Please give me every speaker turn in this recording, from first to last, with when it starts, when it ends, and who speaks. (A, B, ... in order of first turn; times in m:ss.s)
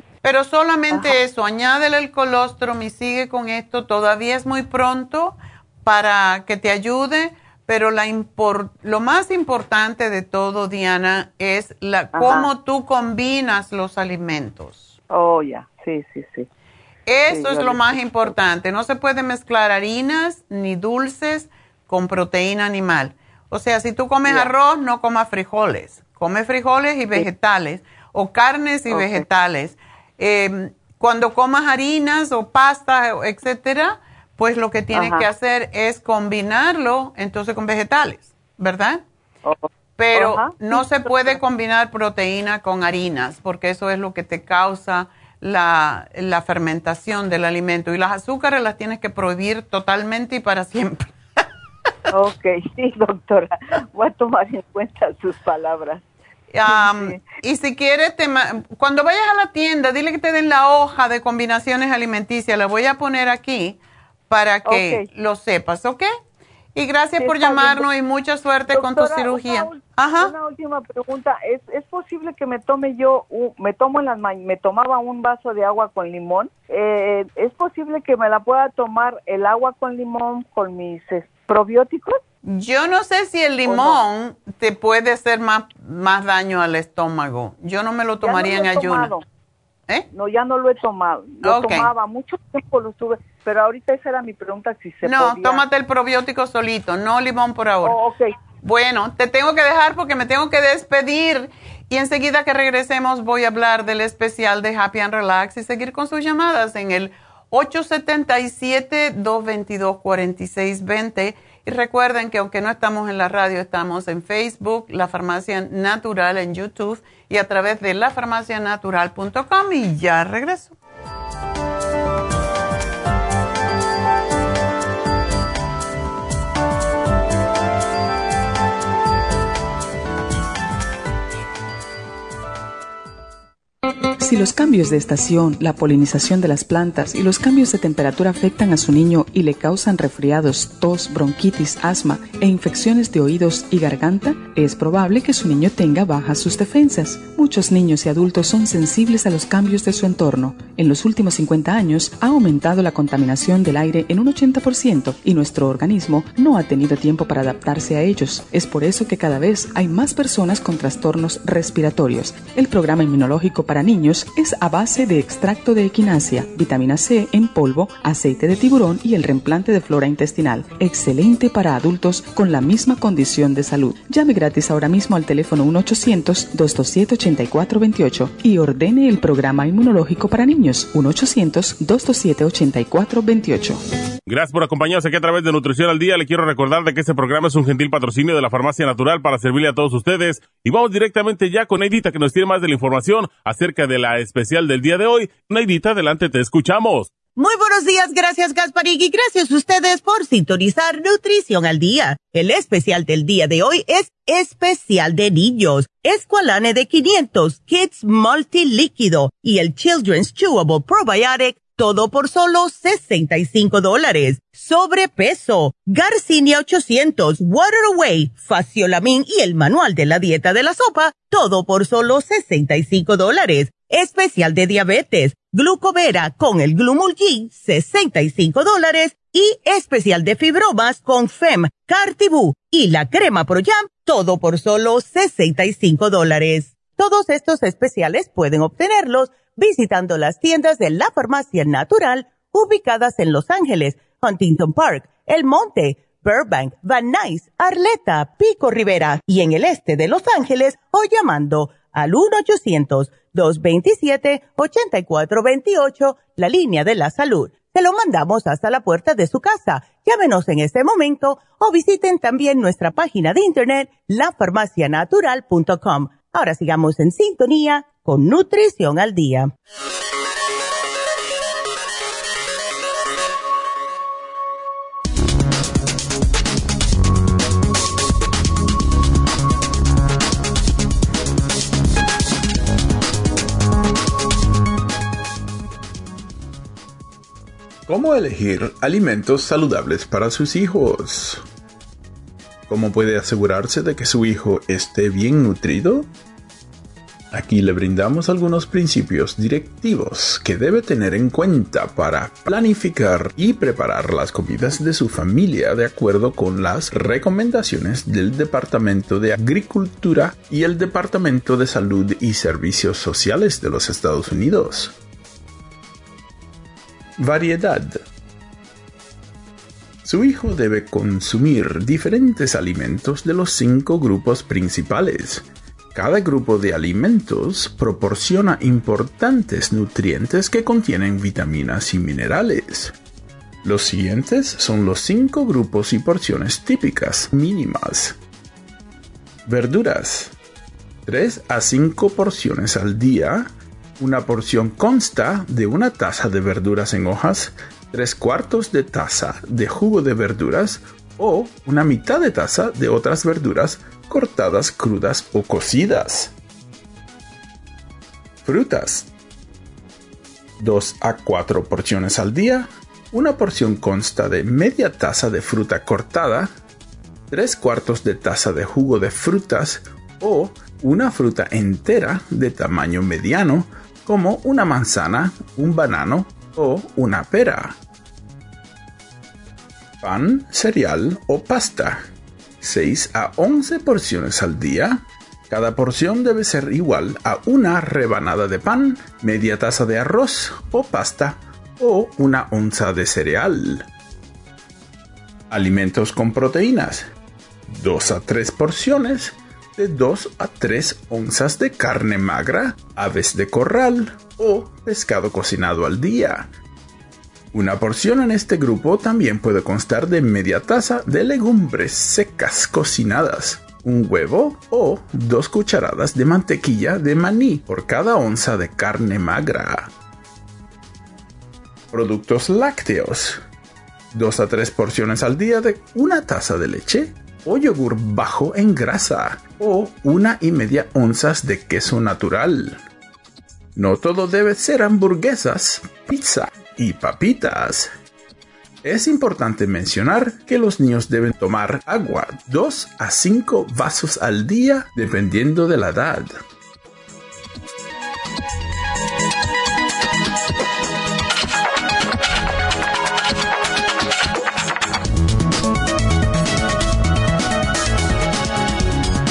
0:00.2-0:15.0 A
0:00.9-0:01.2 B
0:12.1-0:12.5 B
0:15.1-0:16.5 B
0:17.1-0:39.0 A
0:17.3-0:18.3 B
0:24.2-0:24.5 B
0:28.9-0:29.2 B
0:34.9-0:35.3 B
0:39.4-0:41.4 B
0:40.0-0:51.4 A
0:52.1-0:56.0 B
0:56.5-1:06.1 A
0:56.6-0:57.2 B
1:04.6-1:05.1 B
1:06.7-1:10.3 A
1:07.2-1:07.9 B
1:08.7-1:22.2 B
1:22.4-1:29.1 A
1:23.6-1:24.0 B
1:28.2-1:29.2 B
1:30.1-1:35.6 B
1:31.4-1:31.9 A
1:35.0-1:38.0 A
1:37.8-1:38.3 B
1:38.6-2:00.8 A
2:14.2-3:03.8 C
3:04.3-3:17.1 D
3:17.4-4:29.5 E
4:47.9-4:51.4 F
4:52.7-4:56.1 F
4:57.3-5:15.0 F
5:17.2-5:18.0 F
5:20.0-5:32.9 F
5:33.6-5:38.2 F
5:39.5-5:40.3 F
5:41.0-5:56.3 F
5:58.4-5:59.1 F
6:00.6-6:06.5 F
6:07.3-6:17.7 F
6:20.0-6:22.0 F
6:22.6-6:33.8 F
6:35.5-6:37.1 F
6:37.7-6:46.5 F
6:47.5-6:59.9 F
7:01.9-7:03.4 F
7:04.1-7:12.8 F
7:13.8-7:17.9 F
7:18.8-7:26.4 F